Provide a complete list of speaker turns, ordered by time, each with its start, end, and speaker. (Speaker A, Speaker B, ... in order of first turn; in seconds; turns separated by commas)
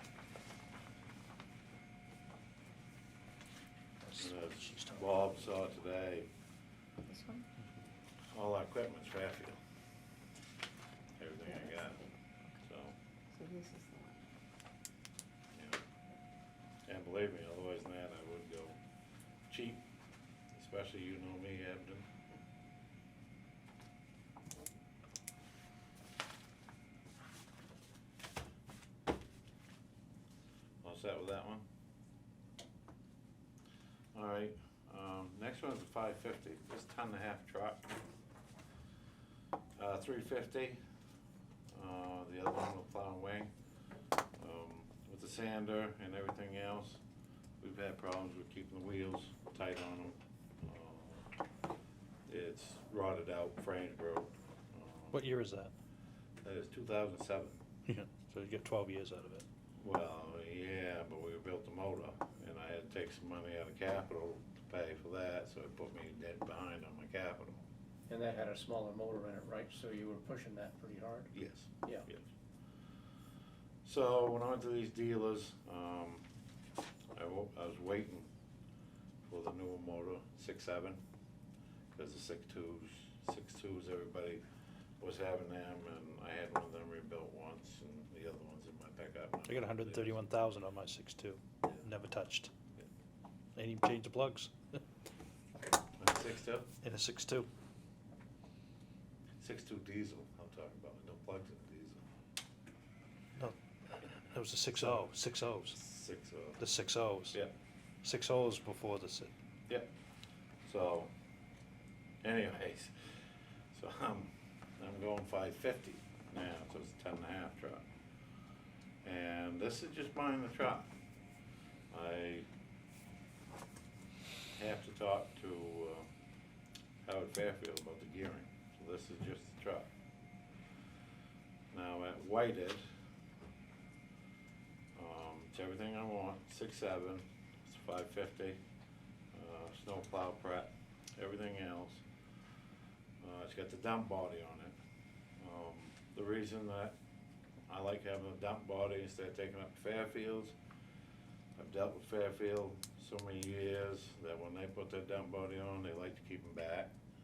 Speaker A: 4.0-5.3, Speaker B: 4.2-6.3, Speaker C: 7.1-7.5, Speaker B: 8.3-9.6, Speaker B: 11.2-12.1, Speaker C: 11.4-12.1, Speaker B: 12.6-13.0, Speaker C: 13.3-14.2, Speaker B: 15.5-15.8, Speaker B: 16.9-18.8, Speaker B: 19.5-19.9, Speaker B: 20.5-22.1, Speaker B: 30.8-31.7, Speaker B: 34.1-38.0, Speaker B: 39.8-40.8, Speaker B: 41.7-43.5, Speaker B: 44.4-47.0, Speaker B: 47.6-51.3, Speaker B: 52.3-55.2, Speaker A: 55.1-55.7, Speaker B: 56.4-57.6, Speaker A: 57.9-59.5, Speaker B: 59.8-67.6, Speaker D: 68.1-71.3, Speaker B: 71.3-72.3, Speaker B: 73.8-76.2, Speaker B: 77.1-78.3, Speaker B: 79.3-81.0, Speaker B: 81.9-84.4, Speaker B: 85.0-90.2, Speaker A: 89.5-92.5, Speaker A: 93.6-94.8, Speaker B: 96.0-96.7, Speaker A: 96.8-97.5, Speaker B: 99.4-102.0, Speaker A: 104.2-105.8, Speaker B: 105.8-106.6, Speaker A: 106.6-107.4, Speaker A: 108.0-109.3, Speaker B: 110.7-111.1, Speaker B: 112.2-112.9, Speaker B: 113.7-117.8, Speaker B: 119.0-120.9, Speaker B: 121.9-122.5, Speaker B: 124.5-126.1, Speaker B: 127.0-129.9, Speaker B: 131.7-132.8, Speaker B: 134.9-138.6, Speaker B: 139.3-142.0, Speaker B: 143.2-144.8, Speaker B: 145.4-147.0, Speaker B: 147.7-150.6, Speaker B: 151.6-156.9